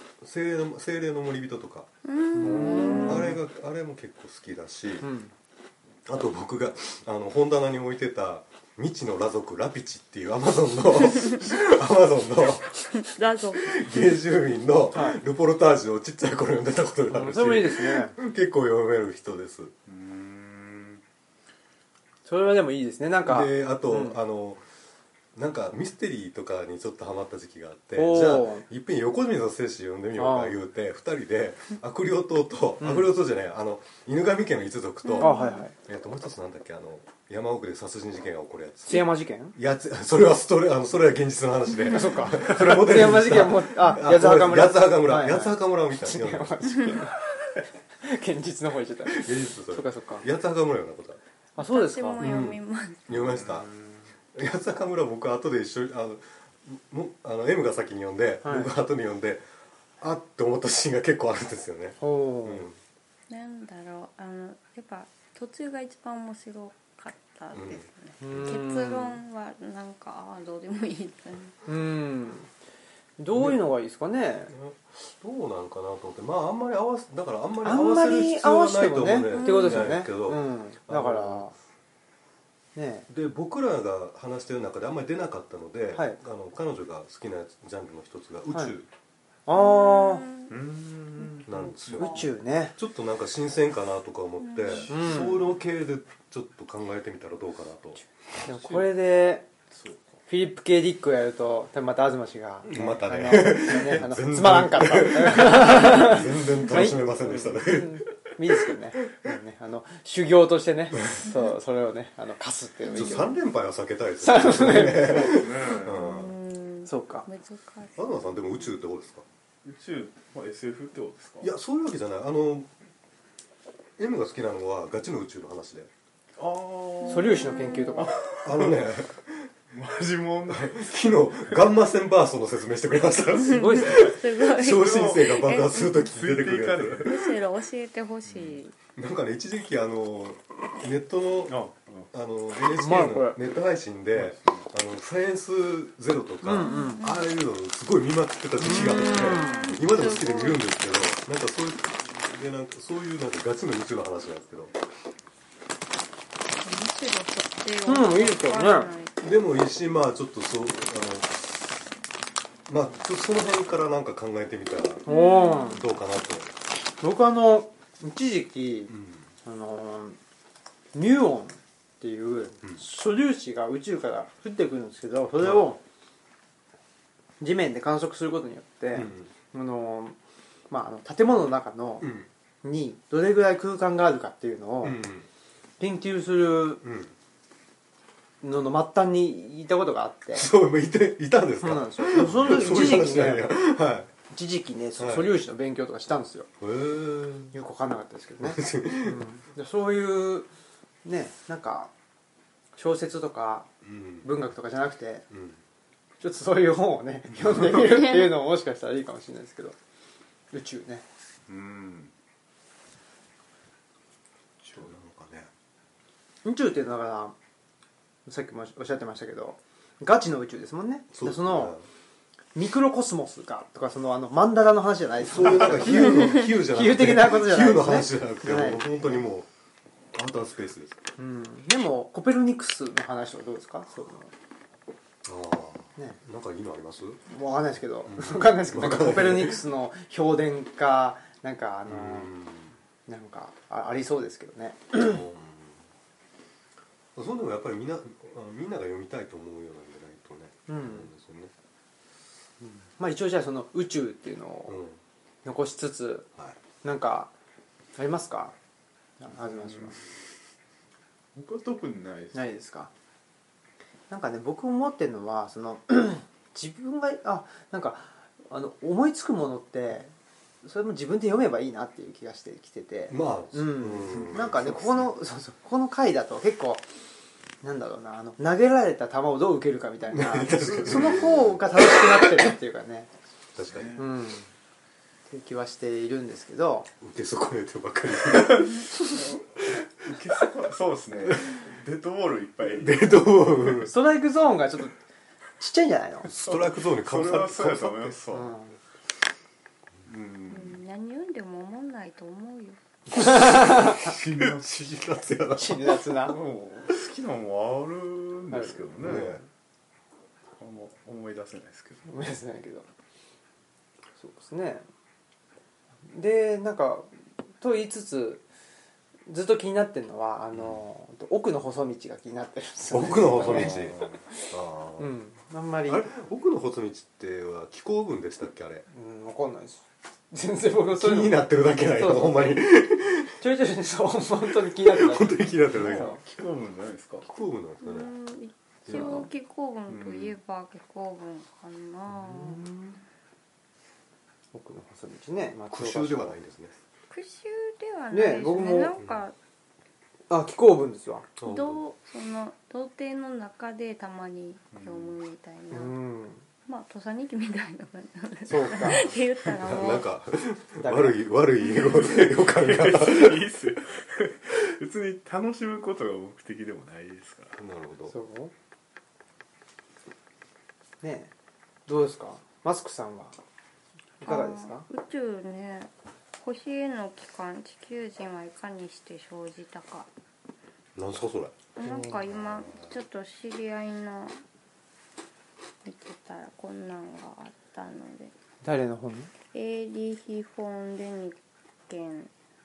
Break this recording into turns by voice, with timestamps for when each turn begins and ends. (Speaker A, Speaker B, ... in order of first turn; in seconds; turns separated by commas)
Speaker A: 0.2-5.1, Speaker B: 2.0-3.4, Speaker C: 2.4-3.4, Speaker D: 2.4-3.3, Speaker D: 5.0-5.3, Speaker A: 6.1-19.7, Speaker B: 12.8-14.2, Speaker D: 14.9-15.2, Speaker D: 17.1-18.2, Speaker C: 19.9-21.0, Speaker D: 22.2-24.2, Speaker A: 23.2-24.6, Speaker A: 25.3-47.1, Speaker D: 27.9-28.6, Speaker D: 30.2-30.6, Speaker D: 32.8-33.1, Speaker B: 35.1-35.6, Speaker D: 35.2-35.7, Speaker D: 38.9-39.6, Speaker D: 41.9-50.3, Speaker A: 49.1-51.2, Speaker D: 51.6-52.3, Speaker B: 51.6-53.1, Speaker A: 52.2-53.7, Speaker C: 53.1-54.0, Speaker A: 54.3-59.5, Speaker D: 58.4-58.7, Speaker A: 60.0-62.8, Speaker D: 62.0-62.7, Speaker B: 63.3-71.6, Speaker A: 67.5-67.8, Speaker D: 68.2-69.2, Speaker D: 71.7-72.5, Speaker D: 73.2-74.5, Speaker A: 73.3-73.6, Speaker A: 74.5-81.5, Speaker D: 77.6-81.5, Speaker B: 79.3-80.0, Speaker D: 82.8-83.1, Speaker A: 83.1-88.9, Speaker D: 85.9-86.2, Speaker D: 89.5-90.3, Speaker B: 89.5-90.5, Speaker C: 90.5-92.0, Speaker A: 91.5-98.0, Speaker D: 91.8-92.8, Speaker B: 94.4-94.9, Speaker D: 94.9-95.5, Speaker D: 98.4-99.5, Speaker C: 98.4-98.9, Speaker C: 99.7-100.2, Speaker D: 100.3-113.3, Speaker A: 102.7-108.6, Speaker B: 112.8-113.4, Speaker A: 112.9-116.4, Speaker D: 114.2-115.3, Speaker C: 114.5-116.2, Speaker B: 115.8-118.3, Speaker D: 116.9-117.3, Speaker A: 118.0-119.3, Speaker C: 119.6-121.5, Speaker A: 121.4-122.7, Speaker A: 124.0-125.9, Speaker C: 126.4-128.8, Speaker D: 127.0-128.2, Speaker B: 127.1-128.0, Speaker A: 128.4-129.5, Speaker C: 129.7-131.6, Speaker A: 130.5-137.3, Speaker B: 133.3-136.1, Speaker D: 133.4-134.1, Speaker C: 134.7-135.3, Speaker C: 135.9-137.4, Speaker B: 137.0-138.8, Speaker C: 138.3-138.6, Speaker A: 138.9-154.7, Speaker C: 141.5-142.1, Speaker D: 142.7-143.4, Speaker C: 144.2-144.7, Speaker D: 146.4-147.0, Speaker B: 146.5-147.3, Speaker D: 148.6-149.7, Speaker B: 148.6-150.6, Speaker B: 156.6-159.2, Speaker D: 157.9-158.9, Speaker A: 159.2-161.8, Speaker A: 162.7-165.1, Speaker D: 165.1-165.8, Speaker B: 165.1-165.9, Speaker A: 165.6-166.5, Speaker D: 167.0-170.2, Speaker A: 168.9-169.3, Speaker D: 170.9-175.8, Speaker A: 175.4-175.7, Speaker D: 177.4-180.2, Speaker A: 178.9-179.3, Speaker D: 180.7-182.1, Speaker A: 182.0-182.3, Speaker D: 182.6-185.0, Speaker A: 184.8-185.3, Speaker D: 185.8-186.8, Speaker A: 186.8-187.1, Speaker D: 188.4-190.5, Speaker A: 190.3-194.1, Speaker D: 191.6-193.6, Speaker D: 194.3-196.5, Speaker A: 195.0-195.4, Speaker A: 196.6-197.5, Speaker D: 197.5-200.5, Speaker A: 198.4-199.2, Speaker D: 201.1-201.9, Speaker D: 202.8-203.7, Speaker A: 203.8-204.3, Speaker D: 204.2-205.3, Speaker A: 205.3-205.6, Speaker D: 206.2-209.8, Speaker D: 210.5-211.1, Speaker C: 211.5-212.1, Speaker A: 214.7-215.5, Speaker D: 216.4-217.4, Speaker D: 218.3-221.8, Speaker A: 221.1-221.9, Speaker D: 222.6-229.2, Speaker A: 225.2-229.5, Speaker A: 230.1-231.0, Speaker D: 231.2-234.3, Speaker A: 235.2-237.2, Speaker D: 237.3-242.3, Speaker A: 238.1-239.6, Speaker A: 241.9-242.7, Speaker D: 243.1-245.2, Speaker A: 244.9-245.8, Speaker A: 247.2-251.5, Speaker D: 250.7-251.1, Speaker D: 252.9-254.8, Speaker A: 254.7-255.0, Speaker D: 255.4-256.3, Speaker D: 256.8-257.3, Speaker D: 258.0-258.6, Speaker D: 259.2-260.0, Speaker C: 259.4-259.9, Speaker C: 261.3-262.4, Speaker D: 262.3-262.9, Speaker D: 264.1-276.9, Speaker A: 273.1-275.1, Speaker D: 277.6-283.1, Speaker A: 280.1-282.3, Speaker A: 283.6-284.0, Speaker C: 283.7-284.0, Speaker D: 284.0-284.5, Speaker D: 285.3-286.9, Speaker A: 287.0-289.7, Speaker C: 288.3-289.4, Speaker C: 290.0-293.5, Speaker A: 291.2-291.5, Speaker A: 292.7-293.9, Speaker D: 293.8-295.0, Speaker D: 295.6-296.3, Speaker A: 296.2-298.2, Speaker C: 296.4-298.5, Speaker D: 298.3-298.8, Speaker C: 300.0-300.8, Speaker B: 300.5-302.8, Speaker D: 303.2-304.1, Speaker A: 303.3-306.0, Speaker C: 304.0-304.7, Speaker D: 305.6-306.4, Speaker C: 306.2-309.4, Speaker D: 308.5-308.9, Speaker A: 309.0-309.4, Speaker C: 310.6-312.3, Speaker D: 312.1-312.9, Speaker D: 314.2-314.9, Speaker D: 316.1-318.4, Speaker D: 319.3-324.5, Speaker A: 322.9-325.1, Speaker C: 323.4-324.2, Speaker D: 325.0-326.1, Speaker A: 325.9-328.9, Speaker D: 328.9-332.7, Speaker A: 331.0-333.4, Speaker D: 333.4-336.2, Speaker A: 334.7-336.2, Speaker C: 335.7-337.3, Speaker A: 337.2-338.1, Speaker B: 337.8-342.6, Speaker D: 338.9-339.3, Speaker C: 339.9-340.4, Speaker D: 342.1-343.0, Speaker D: 344.5-346.4, Speaker A: 345.7-346.8, Speaker B: 347.1-349.4, Speaker D: 348.1-349.0, Speaker D: 350.3-351.3, Speaker A: 351.4-351.8, Speaker B: 351.4-356.0, Speaker C: 354.7-355.2, Speaker D: 355.7-356.4, Speaker B: 356.7-360.1, Speaker D: 358.5-359.1, Speaker A: 359.5-363.5, Speaker D: 360.8-361.2, Speaker C: 361.6-367.6, Speaker A: 367.6-368.1, Speaker D: 368.1-368.5, Speaker D: 371.0-371.3, Speaker D: 371.9-373.4, Speaker D: 374.2-374.9, Speaker B: 374.2-380.1, Speaker A: 381.0-381.6, Speaker B: 381.8-384.4, Speaker D: 381.8-382.2, Speaker B: 385.8-388.3, Speaker D: 388.6-389.3, Speaker B: 389.5-391.4, Speaker B: 391.9-392.3